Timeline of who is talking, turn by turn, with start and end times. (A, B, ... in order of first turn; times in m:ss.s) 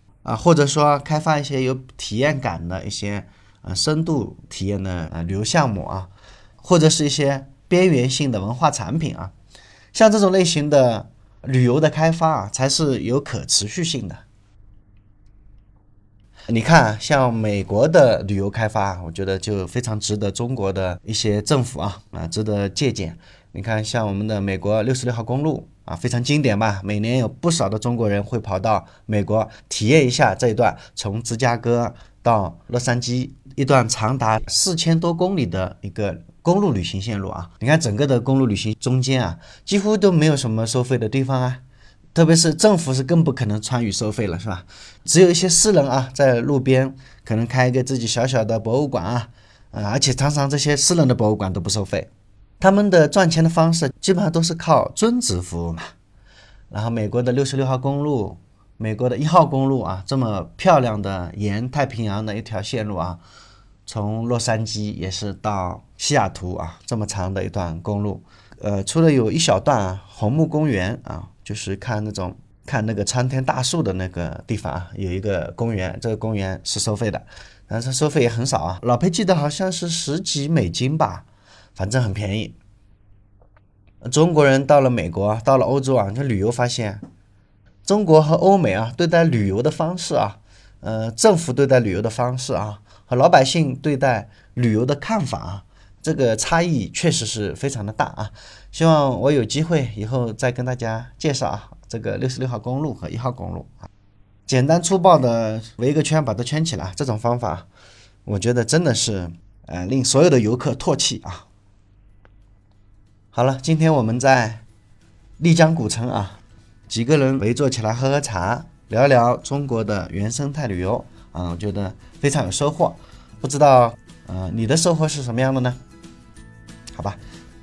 0:00.2-0:09.3 A
0:09.9-0:14.2 A
0:16.5-0:41.6 A
0:42.1-0:52.1 A
0:52.6-0:55.9 A
0:56.7-1:03.2 A
1:03.8-1:22.6 A
1:24.0-1:27.0 A
1:27.8-1:43.9 A
1:44.5-1:47.7 A
1:48.2-1:51.4 A
1:53.3-1:54.6 A
1:55.4-2:05.8 A